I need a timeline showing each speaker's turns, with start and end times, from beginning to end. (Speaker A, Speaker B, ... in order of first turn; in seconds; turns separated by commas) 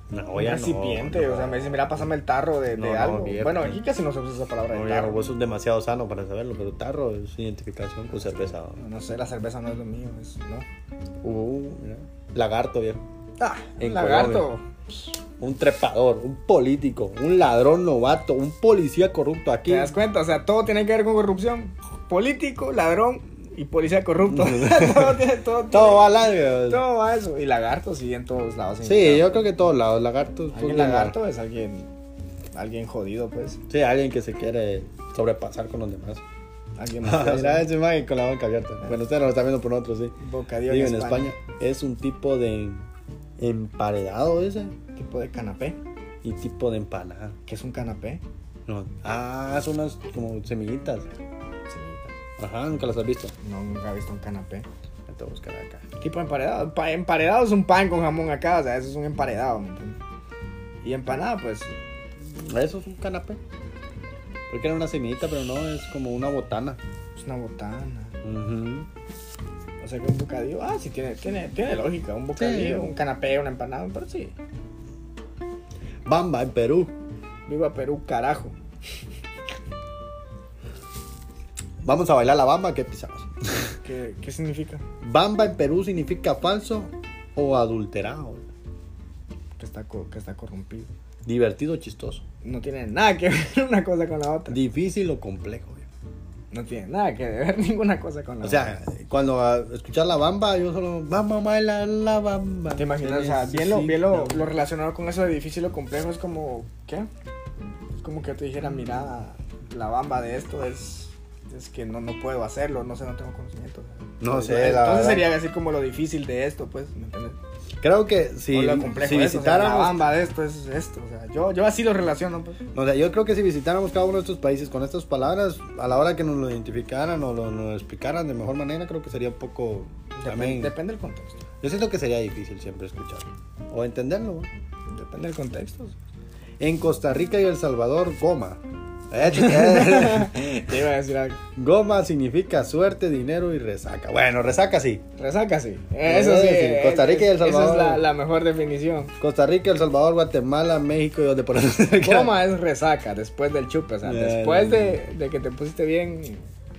Speaker A: 0.1-1.8, Speaker B: 0.3-5.2, Speaker A: 2.7-3.8, Speaker A: 4.7-8.8, Speaker B: 8.7-10.7, Speaker A: 11.2-13.0, Speaker B: 13.4-15.1, Speaker A: 13.8-14.5, Speaker A: 15.4-19.9, Speaker B: 19.7-26.1, Speaker A: 24.3-26.8, Speaker B: 26.7-29.4, Speaker A: 28.8-31.1, Speaker B: 30.5-31.9, Speaker B: 32.5-33.6, Speaker A: 33.7-36.2, Speaker B: 36.8-37.7, Speaker A: 37.0-40.1, Speaker B: 40.2-41.3, Speaker A: 40.7-42.8, Speaker A: 43.4-44.7, Speaker B: 44.9-45.8, Speaker A: 46.2-47.4, Speaker B: 47.5-48.2, Speaker A: 48.7-51.1, Speaker B: 51.7-52.1, Speaker A: 52.4-53.3, Speaker B: 53.4-54.7, Speaker A: 55.1-55.8, Speaker B: 56.0-60.0, Speaker B: 60.8-61.7, Speaker A: 62.2-63.4, Speaker A: 64.5-66.8, Speaker B: 67.2-68.2, Speaker A: 68.2-68.9, Speaker B: 69.8-74.3, Speaker A: 72.4-72.9, Speaker A: 76.0-76.9, Speaker B: 77.5-78.5, Speaker A: 81.8-83.7, Speaker B: 83.8-84.8, Speaker A: 85.0-88.5, Speaker B: 89.6-90.9, Speaker A: 91.2-92.2, Speaker B: 92.4-94.6, Speaker A: 94.5-95.9, Speaker B: 96.5-98.8, Speaker A: 98.4-104.5, Speaker B: 102.7-107.1, Speaker B: 108.0-117.3, Speaker A: 114.2-115.3, Speaker A: 117.8-120.1, Speaker B: 118.5-122.6, Speaker A: 122.7-130.7, Speaker B: 130.1-131.4, Speaker A: 131.6-134.5, Speaker B: 134.9-135.9, Speaker A: 136.6-138.6, Speaker A: 139.1-140.5, Speaker B: 139.1-141.4, Speaker A: 141.6-145.0, Speaker B: 145.2-149.1, Speaker A: 146.0-148.0, Speaker A: 149.2-152.3, Speaker B: 152.0-156.4, Speaker A: 154.0-155.0